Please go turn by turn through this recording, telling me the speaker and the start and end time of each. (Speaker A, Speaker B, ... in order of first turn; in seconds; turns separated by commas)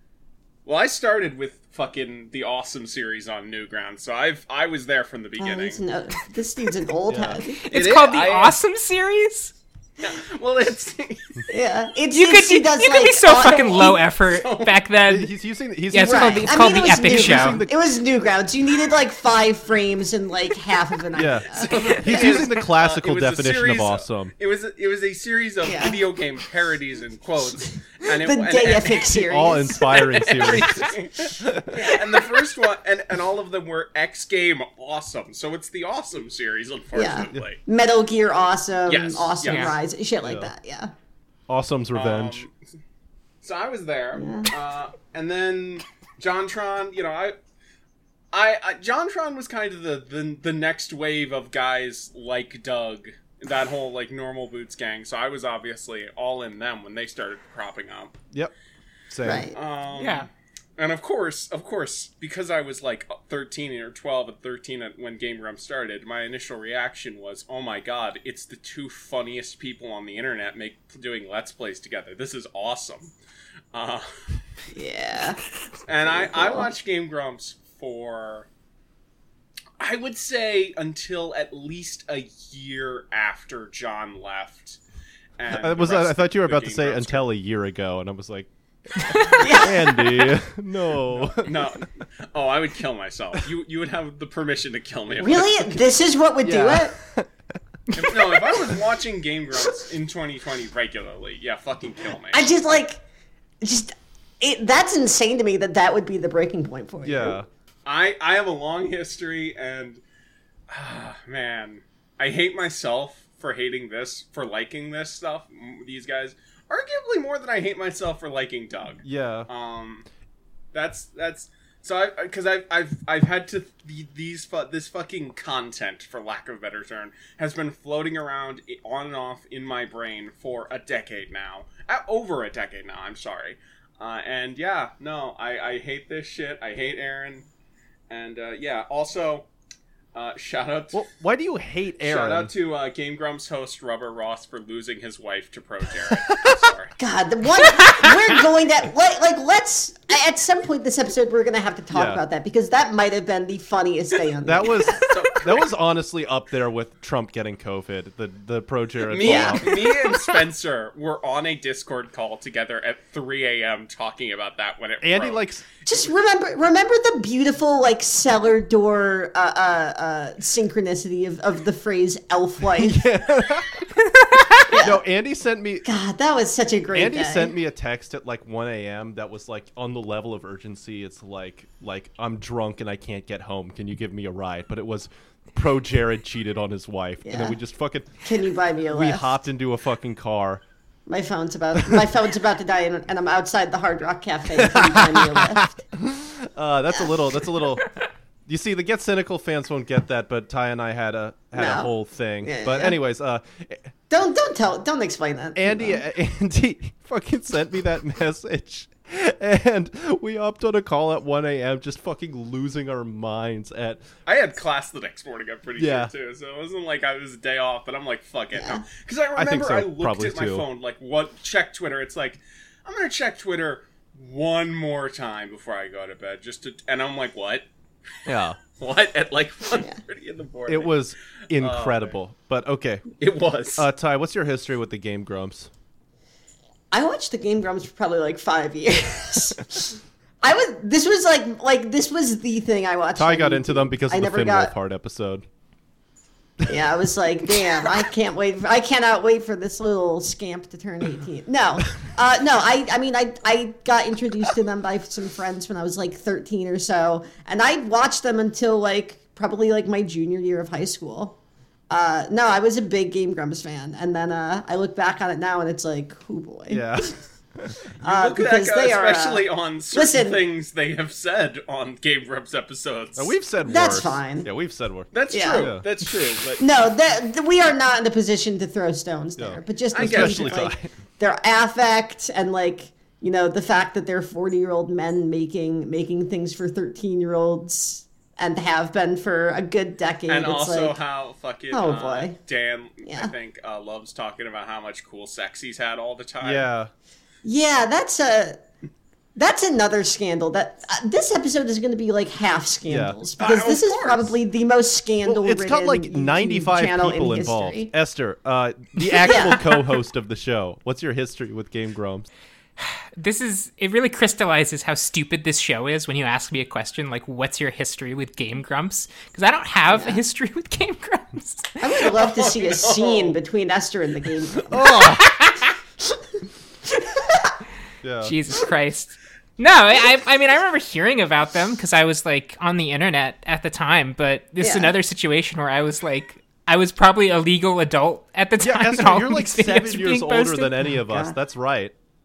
Speaker A: 0.7-5.8, Speaker B: 5.4-7.6, Speaker C: 7.1-7.4, Speaker D: 7.6-9.5, Speaker A: 7.7-8.6, Speaker A: 10.0-11.5, Speaker B: 11.5-14.0, Speaker D: 12.1-15.3, Speaker A: 13.6-14.8, Speaker C: 15.1-17.8, Speaker D: 15.9-17.6, Speaker B: 16.0-22.4, Speaker C: 21.1-24.3, Speaker A: 21.5-37.6, Speaker B: 25.6-26.0, Speaker B: 28.1-29.8, Speaker C: 29.1-31.7, Speaker B: 31.7-32.3, Speaker B: 37.0-40.9, Speaker A: 38.9-39.8, Speaker D: 39.5-39.8, Speaker C: 40.2-40.5, Speaker C: 41.5-42.5, Speaker A: 41.9-42.5, Speaker A: 43.4-47.4, Speaker B: 44.2-44.5, Speaker A: 48.3-58.2, Speaker C: 59.1-59.5, Speaker B: 59.2-59.5, Speaker A: 59.5-73.1, Speaker D: 59.9-60.3, Speaker A: 73.7-74.1, Speaker B: 74.7-75.4, Speaker A: 75.9-78.5, Speaker B: 76.1-76.7, Speaker A: 79.8-84.8, Speaker A: 85.4-87.3, Speaker C: 85.5-88.5, Speaker C: 89.1-91.8, Speaker B: 89.4-90.0, Speaker A: 91.1-95.8, Speaker B: 95.2-96.9, Speaker C: 96.4-97.3, Speaker C: 97.9-98.5, Speaker A: 98.0-102.6, Speaker B: 102.3-103.0, Speaker B: 103.6-107.4, Speaker C: 107.0-107.5, Speaker A: 107.9-110.0, Speaker A: 110.7-120.0, Speaker C: 119.0-119.5, Speaker A: 120.7-137.5, Speaker A: 138.1-139.5, Speaker A: 140.1-141.1, Speaker C: 140.9-142.5, Speaker A: 142.0-146.9, Speaker B: 147.0-155.1, Speaker C: 151.9-152.2, Speaker C: 154.4-159.7, Speaker A: 154.9-155.8, Speaker A: 159.1-165.5, Speaker B: 159.2-159.9, Speaker C: 165.0-165.7, Speaker B: 165.9-173.0, Speaker C: 172.8-173.8, Speaker D: 174.1-174.8, Speaker B: 174.7-175.0, Speaker C: 174.8-175.9, Speaker B: 175.8-177.5, Speaker C: 176.9-188.2, Speaker B: 187.2-187.6, Speaker B: 188.2-189.3, Speaker C: 188.9-190.6, Speaker B: 191.1-195.8, Speaker C: 194.6-197.8, Speaker C: 198.5-203.9, Speaker B: 201.5-201.9, Speaker B: 202.4-203.0, Speaker B: 204.1-206.0, Speaker C: 205.6-214.1, Speaker A: 214.3-227.7, Speaker C: 215.8-216.1, Speaker B: 218.5-218.8, Speaker C: 219.4-220.7, Speaker C: 228.3-228.6, Speaker A: 228.6-231.0, Speaker C: 230.7-233.1, Speaker A: 231.6-232.2, Speaker A: 233.2-233.9, Speaker C: 233.8-235.7, Speaker B: 236.9-244.7, Speaker C: 243.2-245.4, Speaker B: 246.7-261.4, Speaker B: 261.9-267.1, Speaker C: 266.7-267.8, Speaker A: 268.0-273.4, Speaker B: 268.0-270.4, Speaker C: 273.2-275.9, Speaker B: 273.7-274.5, Speaker A: 275.1-276.6, Speaker B: 275.3-275.7, Speaker B: 276.6-291.0, Speaker C: 279.4-280.9, Speaker A: 279.9-280.7, Speaker A: 290.3-296.7, Speaker B: 291.7-292.4, Speaker B: 293.1-293.3, Speaker C: 296.4-296.9, Speaker B: 297.4-298.6, Speaker B: 299.4-307.9, Speaker C: 302.9-303.2, Speaker A: 303.4-304.4, Speaker C: 305.2-312.3, Speaker B: 309.2-309.7, Speaker D: 312.8-321.8, Speaker B: 319.9-320.2, Speaker B: 321.8-325.2, Speaker A: 322.0-323.4, Speaker C: 324.7-325.4, Speaker B: 327.2-327.5, Speaker C: 328.0-328.4, Speaker D: 328.2-340.9, Speaker B: 334.6-334.9, Speaker C: 338.6-341.9, Speaker B: 341.1-341.4